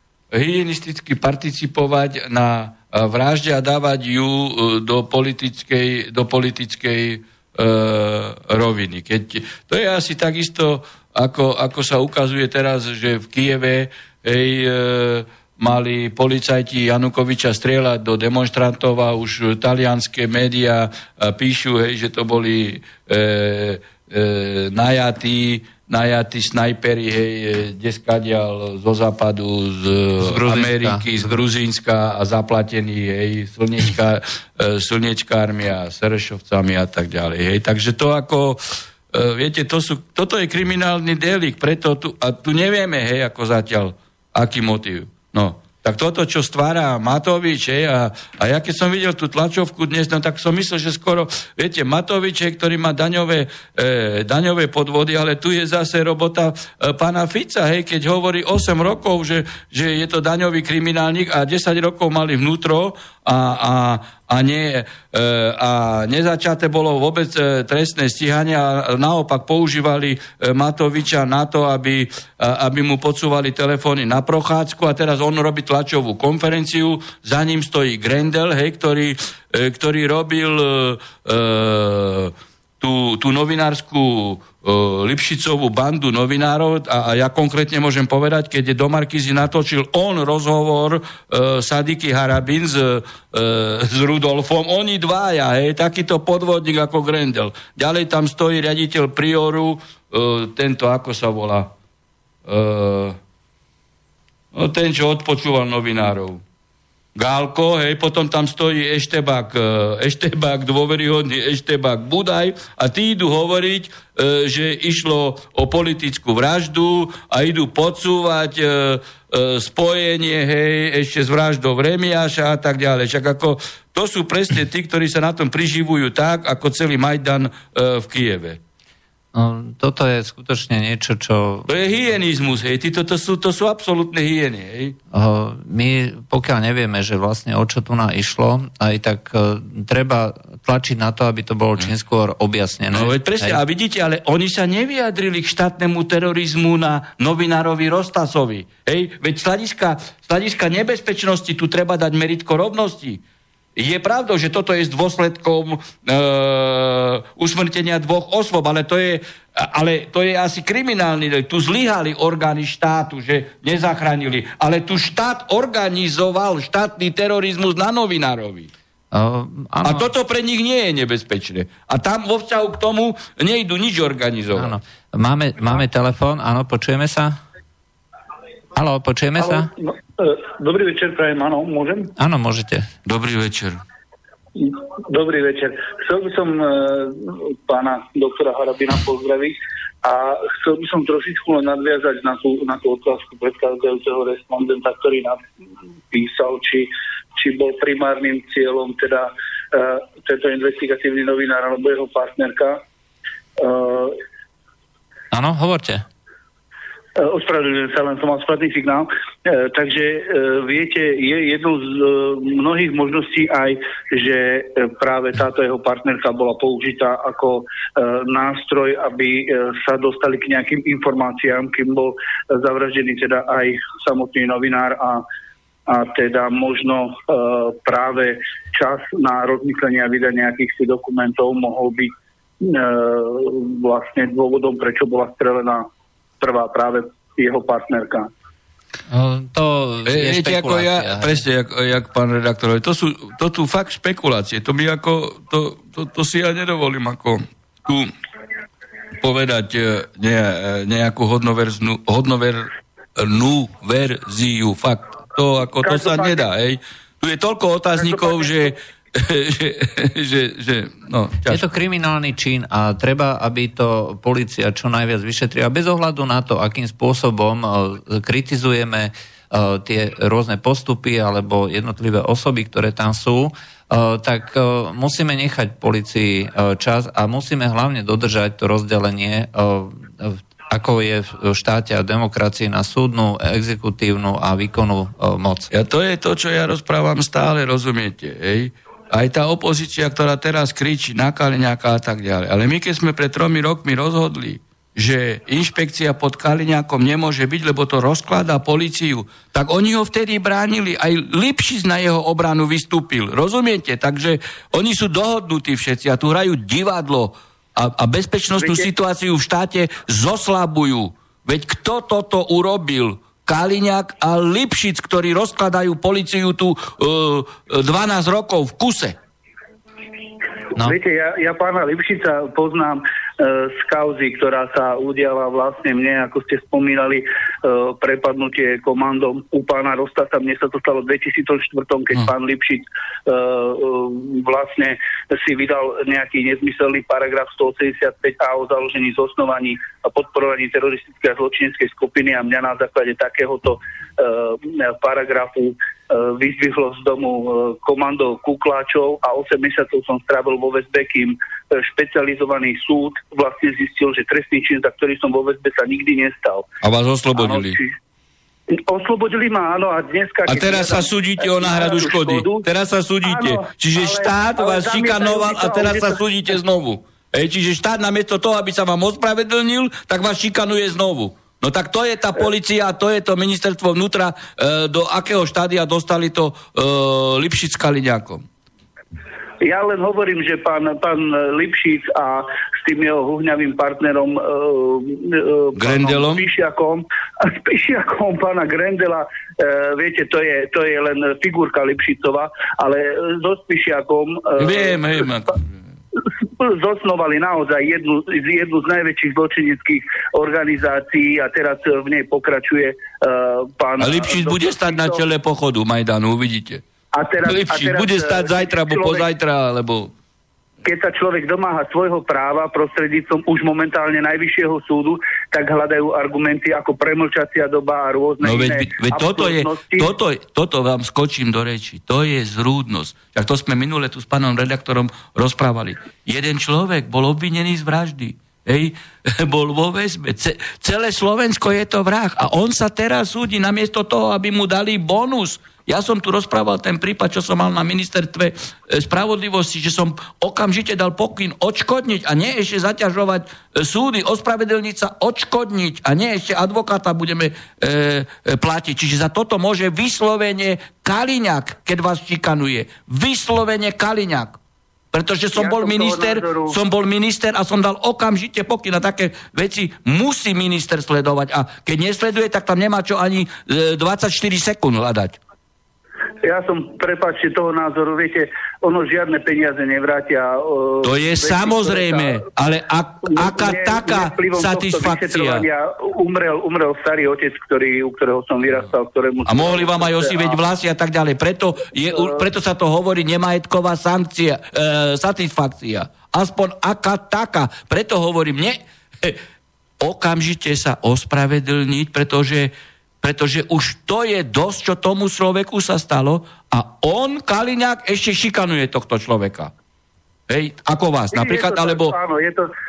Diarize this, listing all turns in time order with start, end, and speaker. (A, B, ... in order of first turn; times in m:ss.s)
0:00.3-1:41.7 A
0:30.2-0:31.4 B
1:42.4-1:43.2 A
1:44.5-1:46.4 A
1:47.1-2:08.6 A
2:09.3-2:11.7 B
2:11.6-2:15.0 A
2:15.1-2:23.6 B
2:22.9-2:33.2 A
2:33.8-2:48.7 A
2:49.1-2:50.1 B
2:49.8-2:54.7 A
2:54.6-2:57.4 B
2:58.8-2:59.7 B
2:59.4-3:02.1 C
3:02.2-3:02.9 B
3:03.0-3:03.8 A
3:04.6-3:15.4 C
3:16.1-3:22.8 C
3:23.6-3:24.2 C
3:25.3-3:26.0 B
3:27.2-3:45.2 C
3:45.9-3:55.9 C
3:56.4-3:58.3 C
3:59.1-4:01.4 B
4:00.0-4:08.1 A
4:09.2-4:21.6 A
4:15.8-4:16.5 C
4:17.9-4:18.7 C
4:21.5-4:45.7 B
4:45.7-5:19.2 A
5:08.6-5:08.9 C
5:20.8-5:56.6 C
5:56.8-5:57.8 A
5:57.4-5:58.0 C
5:58.7-6:02.6 C
6:00.4-6:18.4 A
6:03.2-6:06.2 C
6:19.6-6:35.1 C
6:25.8-6:26.5 A
6:34.6-6:35.6 A
6:36.4-6:45.2 C
6:44.0-6:46.8 A
6:47.1-6:49.2 C
6:47.4-6:50.1 A
6:50.8-7:00.1 C
6:58.4-7:34.6 A
7:35.1-7:45.4 A
7:35.6-7:36.8 C
7:46.4-7:52.4 C
7:51.0-7:55.6 A
7:53.3-8:00.6 C
7:59.5-8:09.4 A
8:02.1-8:02.4 C
8:10.0-8:19.7 A
8:20.5-8:22.1 A
8:21.3-8:22.7 C